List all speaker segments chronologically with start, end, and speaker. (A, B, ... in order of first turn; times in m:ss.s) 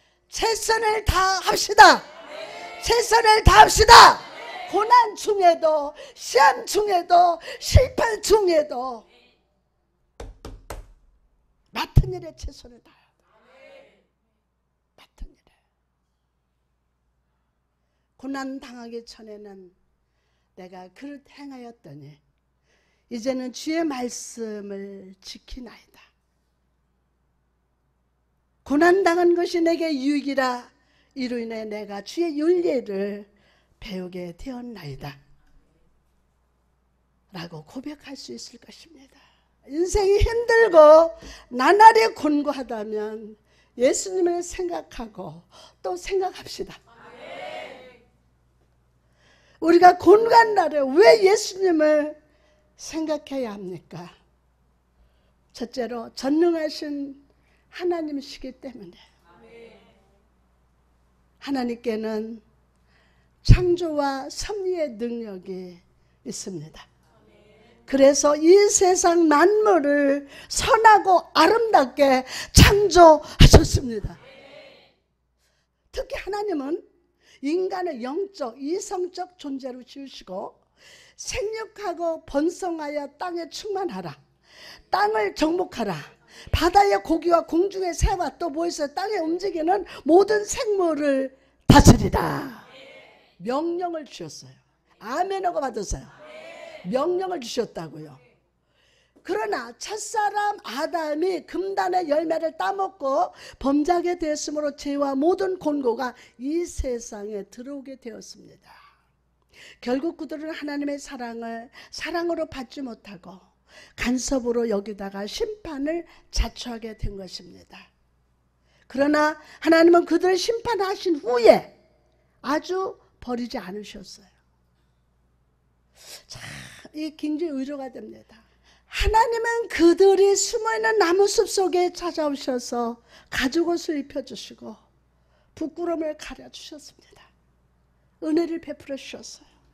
0:00.3-0:02.1 A
0:02.8-0:09.1 A
0:11.7-0:13.0 A
0:15.0-0:15.6 A
0:18.2-0:19.8 A
0:20.6-0:22.2 A
0:23.1-0:26.0 A
0:28.6-0:33.3 A
0:33.8-0:35.2 A
0:37.3-0:46.8 A
0:49.6-0:52.2 A
0:52.8-0:54.1 A
0:55.5-0:57.2 A
0:57.7-0:59.0 A
1:01.4-1:02.4 A
1:03.4-1:06.9 A
1:07.9-1:14.2 A
1:15.9-1:16.8 A
1:17.4-1:20.6 A
1:21.2-1:24.2 A
1:24.9-1:32.7 A
1:33.4-1:36.1 A
1:36.8-1:38.2 A
1:39.2-1:48.8 A
1:49.8-1:57.9 A
1:58.9-2:01.7 A
2:02.4-2:04.3 A
2:06.3-2:14.8 A
2:15.6-2:17.3 A
2:18.2-2:19.5 A